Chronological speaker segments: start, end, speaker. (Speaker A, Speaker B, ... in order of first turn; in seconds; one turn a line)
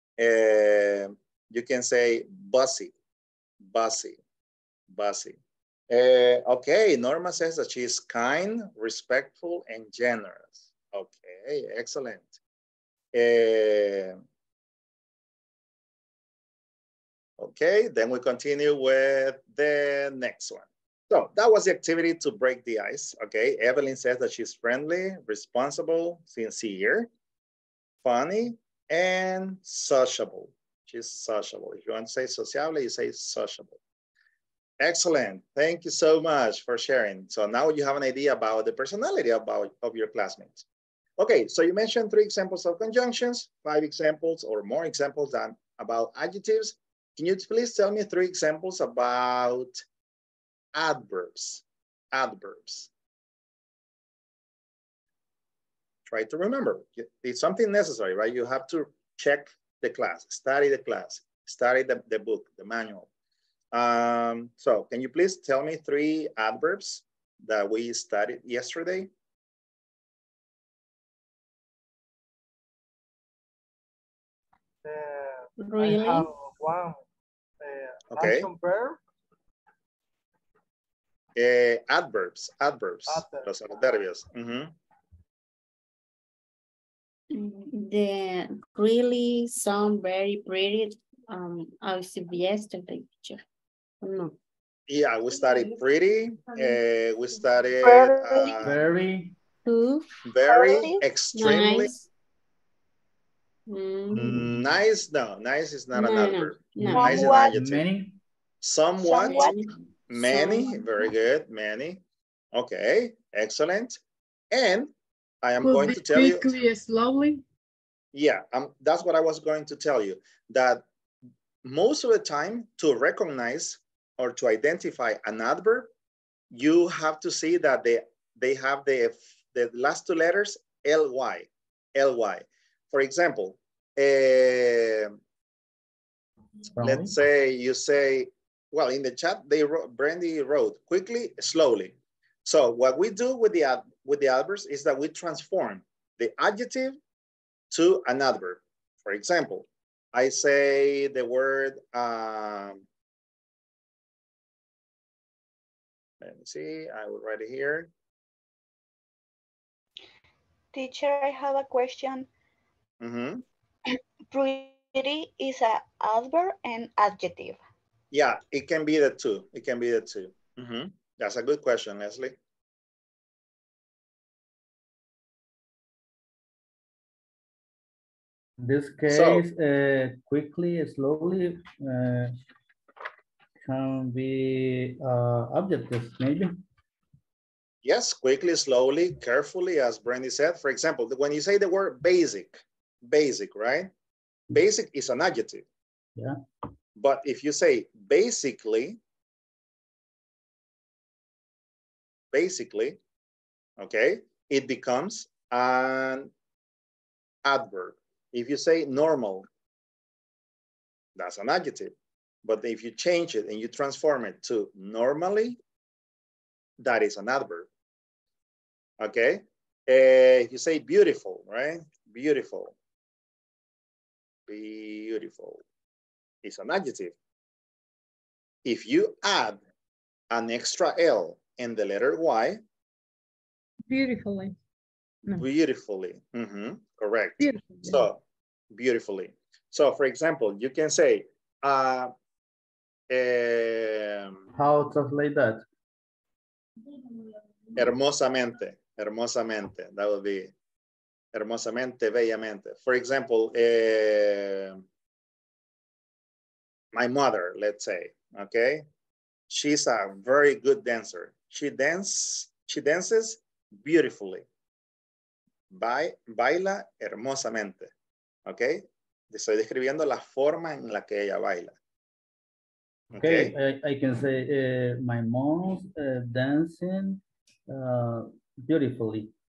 Speaker A: 0.2-2.9
Speaker A: 3.6-4.2
Speaker A: 4.9-5.4
Speaker A: 5.9-12.4
Speaker A: 13.1-14.2
Speaker A: 17.4-27.1
Speaker A: 28.0-33.8
Speaker A: 34.8-40.6
Speaker A: 41.2-49.8
Speaker A: 50.7-52.9
Speaker A: 56.1-63.1
Speaker A: 63.7-69.1
Speaker B: 74.8-77.0
Speaker C: 75.6-76.3
Speaker B: 77.6-79.0
Speaker A: 78.1-78.5
Speaker A: 81.3-84.7
Speaker B: 83.1-83.5
Speaker C: 87.3-93.4
Speaker C: 94.0-94.3
Speaker A: 94.9-98.8
Speaker D: 97.8-98.5
Speaker E: 98.6-99.3
Speaker C: 99.6-100.1
Speaker A: 100.2-101.9
Speaker D: 100.5-101.5
Speaker C: 101.3-102.0
Speaker C: 103.7-104.4
Speaker A: 104.1-107.9
Speaker C: 105.9-107.2
Speaker D: 106.8-107.5
Speaker E: 106.9-108.2
Speaker A: 108.6-109.5
Speaker D: 109.0-109.6
Speaker C: 109.2-109.7
Speaker A: 110.1-112.0
Speaker A: 112.5-114.0
Speaker A: 114.5-114.9
Speaker A: 115.4-116.5
Speaker F: 115.6-117.4
Speaker A: 118.1-120.8
Speaker A: 121.6-125.9
Speaker A: 126.5-135.2
Speaker E: 136.8-137.1
Speaker A: 136.8-147.0
Speaker A: 147.7-152.8
Speaker A: 156.2-157.9
Speaker D: 160.7-162.3
Speaker A: 163.0-163.4
Speaker D: 164.3-167.6
Speaker A: 168.1-172.3
Speaker E: 178.6-182.3
Speaker A: 179.1-179.4
Speaker E: 183.6-186.6
Speaker A: 187.8-193.9
Speaker A: 194.5-195.6
Speaker A: 197.0-199.0
Speaker A: 202.3-203.0
Speaker A: 203.8-206.3
Speaker A: 207.4-209.5
Speaker A: 211.2-215.6
Speaker A: 216.8-217.7
Speaker A: 219.0-222.7
Speaker A: 224.5-225.6
Speaker A: 226.4-227.1
Speaker A: 228.6-229.6
Speaker A: 230.3-232.6
Speaker F: 233.9-234.5
Speaker A: 235.3-238.2
Speaker F: 237.4-238.1
Speaker A: 238.7-242.1
Speaker A: 243.1-244.3
Speaker E: 244.5-245.6
Speaker A: 247.8-250.5
Speaker A: 251.3-254.8
Speaker A: 256.9-258.8
Speaker A: 259.5-264.4
Speaker A: 265.7-267.9
Speaker A: 268.4-271.7
Speaker A: 273.1-273.5
Speaker E: 273.1-279.3